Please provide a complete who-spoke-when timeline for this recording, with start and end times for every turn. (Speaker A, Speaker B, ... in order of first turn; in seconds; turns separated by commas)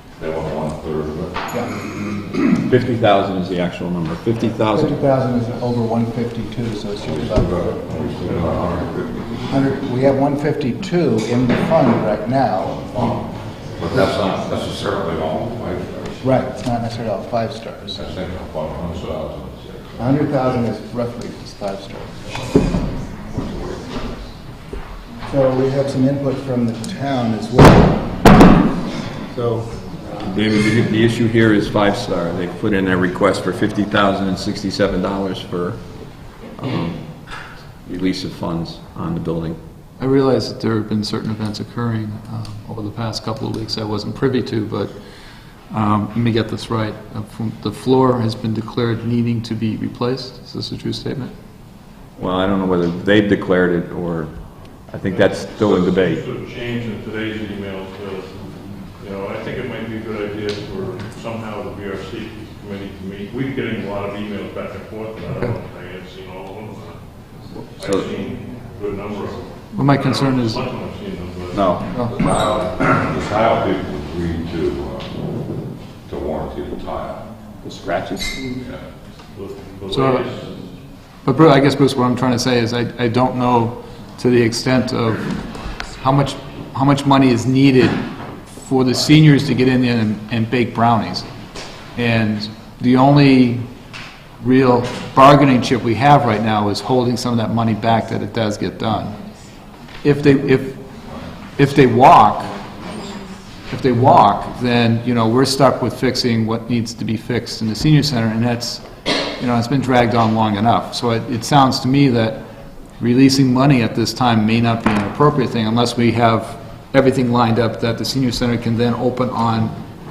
Speaker A: 0.2-1.4, Speaker B: 1.5-1.8, Speaker C: 2.4-5.0, Speaker B: 4.7-7.8, Speaker A: 7.2-9.5, Speaker B: 9.5-13.2, Speaker A: 12.9-13.2, Speaker A: 13.8-16.2, Speaker B: 16.2-18.1, Speaker A: 18.0-20.2, Speaker B: 20.0-22.5, Speaker A: 23.3-23.9, Speaker B: 25.2-28.2, Speaker B: 29.3-29.8, Speaker C: 30.2-35.8, Speaker C: 36.5-37.3, Speaker C: 37.8-39.6, Speaker D: 40.0-44.9, Speaker D: 45.7-51.3, Speaker C: 52.2-54.3, Speaker C: 54.9-56.2, Speaker E: 55.1-58.3, Speaker E: 59.0-67.0, Speaker C: 67.8-68.1, Speaker E: 67.8-72.5, Speaker D: 69.7-70.6, Speaker C: 71.5-72.5, Speaker A: 72.2-75.1, Speaker A: 76.0-77.3, Speaker C: 77.6-78.3, Speaker E: 79.3-80.5, Speaker D: 79.9-80.2, Speaker D: 81.2-85.3, Speaker D: 86.0-88.0, Speaker D: 88.6-91.3, Speaker D: 92.0-93.6, Speaker D: 94.4-99.2, Speaker D: 100.0-100.8, Speaker D: 101.6-102.5, Speaker D: 103.7-108.8, Speaker D: 109.4-112.4, Speaker D: 113.0-119.7